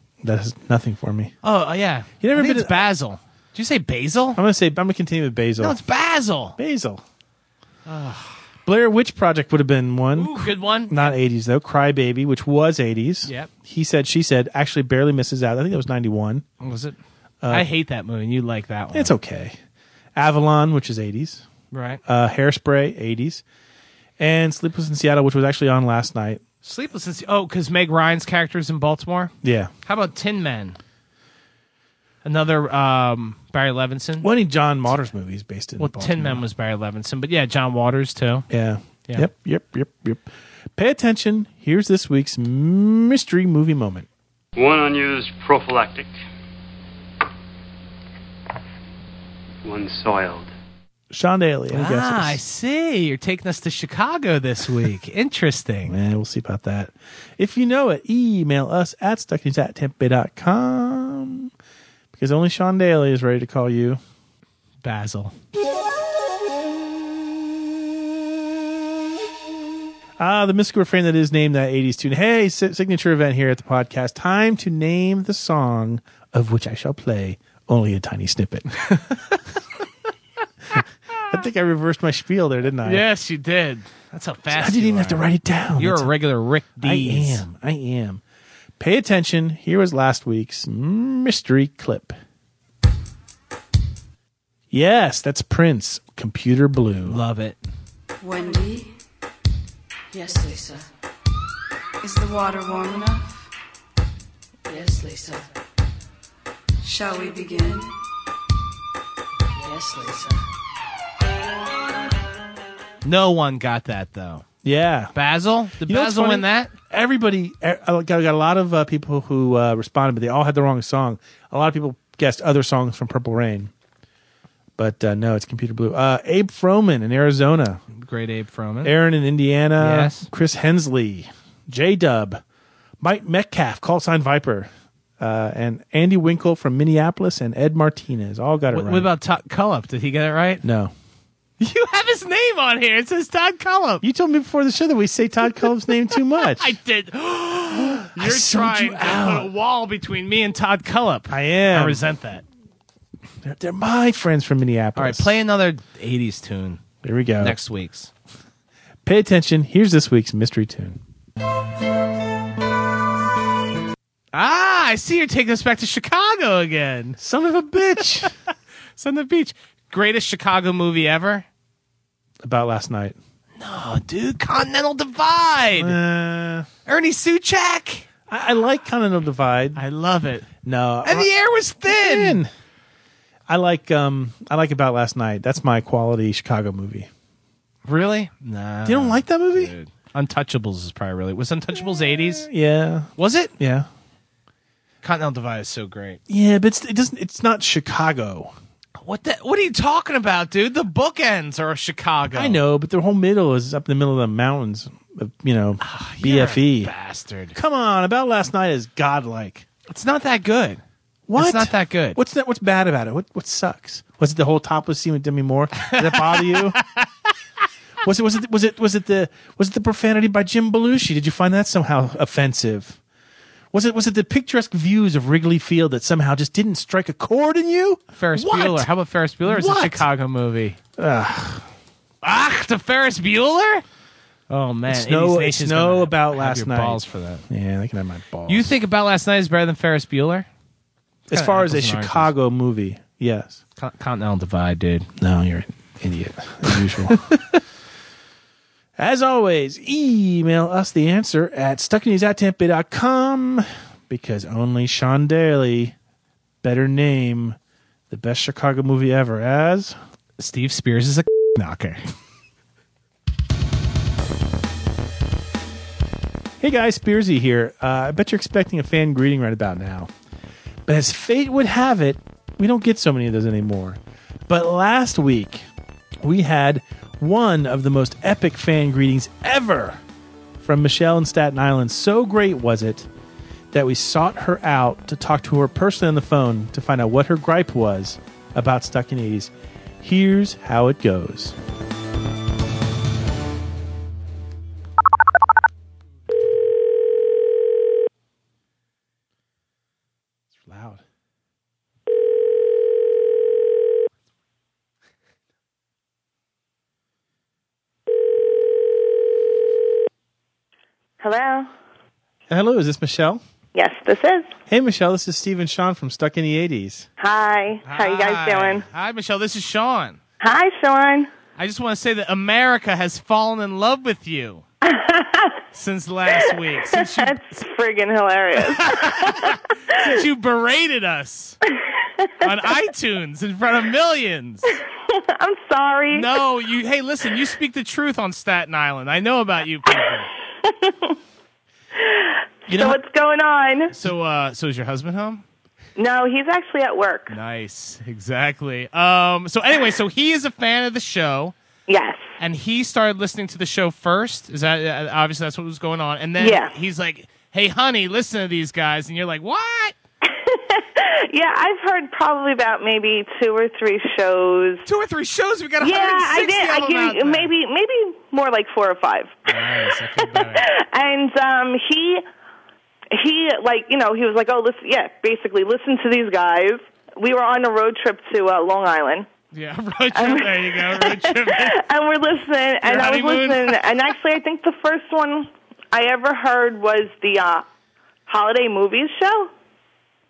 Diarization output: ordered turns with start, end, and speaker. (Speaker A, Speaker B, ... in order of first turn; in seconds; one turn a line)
Speaker A: 0.2-1.3
Speaker B: 1.4-4.4
Speaker A: 2.2-2.8
Speaker A: 4.3-5.8
Speaker B: 5.6-6.6
Speaker A: 6.6-7.0
Speaker B: 7.9-8.4
Speaker A: 8.7-16.4
Speaker B: 10.1-11.2
Speaker B: 16.6-17.0
Speaker A: 17.4-17.7
Speaker B: 17.5-19.1
Speaker A: 18.9-19.6
Speaker A: 20.1-21.4
Speaker B: 21.7-22.0
Speaker A: 22.0-23.4
Speaker A: 24.2-26.4
Speaker B: 26.6-29.3
Speaker A: 29.4-29.7
Speaker B: 29.8-30.8
Speaker B: 32.2-34.3
Speaker A: 34.2-36.5
Speaker B: 35.8-38.5
Speaker A: 38.5-44.1
Speaker C: 44.5-46.1
Speaker C: 49.6-50.5
Speaker A: 51.1-52.4
Speaker B: 51.7-55.9
Speaker A: 55.9-61.5
Speaker A: 62.1-64.0
Speaker B: 64.8-65.3
Speaker A: 70.2-78.7
Speaker B: 78.9-79.4
Speaker A: 80.8-83.0
Speaker B: 82.8-87.5
Speaker A: 84.5-86.1
Speaker A: 86.8-88.2
Speaker A: 88.8-92.2
Speaker A: 94.7-97.2
Speaker B: 97.0-97.6
Speaker D: 98.2-98.9
Speaker D: 100.1-100.8
Speaker D: 102.0-103.5
Speaker D: 104.7-105.4
Speaker D: 106.8-107.9
Speaker D: 109.5-110.4
Speaker B: 113.0-114.4
Speaker A: 114.6-115.1
Speaker B: 115.1-116.7
Speaker A: 115.8-123.7
Speaker A: 124.8-127.8
Speaker B: 127.9-128.9
Speaker A: 128.8-132.4
Speaker B: 129.8-130.3
Speaker A: 133.0-139.1
Speaker B: 138.7-140.6
Speaker A: 140.6-140.9
Speaker B: 141.6-144.0
Speaker A: 144.0-146.7
Speaker B: 146.4-152.4
Speaker A: 147.7-149.5
Speaker A: 151.3-152.0
Speaker A: 153.4-155.3
Speaker B: 154.9-156.8
Speaker A: 157.0-157.6
Speaker B: 157.4-158.1
Speaker A: 159.0-161.0
Speaker B: 164.3-167.2
Speaker A: 167.2-168.3
Speaker B: 169.0-171.4
Speaker A: 172.4-173.2
Speaker B: 173.6-176.0
Speaker A: 175.8-176.7
Speaker B: 176.8-178.1
Speaker A: 178.3-179.8
Speaker B: 179.8-180.5
Speaker A: 180.6-181.3
Speaker B: 181.0-182.4
Speaker A: 181.8-182.5
Speaker A: 183.5-187.1
Speaker B: 187.8-192.5
Speaker A: 188.8-189.7
Speaker A: 192.1-193.9
Speaker B: 193.2-193.5
Speaker B: 195.0-196.2
Speaker A: 196.3-198.5
Speaker B: 199.0-202.6
Speaker A: 202.3-206.9
Speaker B: 205.8-207.6
Speaker A: 207.5-209.7
Speaker B: 209.9-210.8
Speaker A: 211.3-216.8
Speaker B: 211.3-212.2
Speaker B: 215.8-217.1
Speaker A: 218.0-223.0
Speaker A: 223.7-228.9
Speaker B: 228.2-230.8
Speaker A: 229.4-230.1
Speaker A: 231.0-231.7
Speaker B: 232.2-233.8
Speaker B: 234.5-237.4
Speaker A: 234.9-238.7
Speaker B: 238.5-240.5
Speaker A: 241.3-243.6
Speaker B: 241.3-242.3
Speaker B: 243.8-245.1
Speaker A: 245.2-247.3
Speaker B: 246.7-247.3
Speaker A: 249.0-255.9
Speaker A: 256.6-257.6
Speaker A: 258.1-260.0
Speaker B: 260.4-262.1
Speaker A: 266.6-270.1
Speaker A: 270.9-275.6
Speaker A: 276.2-280.0
Speaker A: 280.6-283.1
Speaker A: 283.7-291.6
Speaker A: 300.5-301.0
Speaker E: 311.2-311.7
Speaker A: 312.5-313.4
Speaker E: 313.7-314.5
Speaker A: 314.7-317.1
Speaker E: 317.2-318.8
Speaker B: 317.8-320.2
Speaker E: 320.4-321.3
Speaker B: 321.6-324.6
Speaker E: 324.8-325.6
Speaker B: 325.7-327.5
Speaker E: 326.3-330.2
Speaker B: 328.6-331.6
Speaker E: 332.2-332.5
Speaker B: 332.4-334.7
Speaker E: 335.1-336.3
Speaker B: 336.1-340.3
Speaker E: 340.6-341.1
Speaker E: 341.9-343.9
Speaker A: 342.7-343.0
Speaker B: 343.9-345.4
Speaker E: 346.0-347.3
Speaker B: 347.3-351.5
Speaker E: 351.9-352.2
Speaker B: 352.4-359.9
Speaker E: 356.4-356.7
Speaker E: 360.2-364.8
Speaker B: 364.8-367.5
Speaker E: 365.8-369.4
Speaker B: 369.5-370.7
Speaker E: 370.2-372.2
Speaker E: 373.1-379.3
Speaker B: 379.5-381.8
Speaker E: 380.1-387.6
Speaker B: 382.8-383.8
Speaker E: 388.3-389.5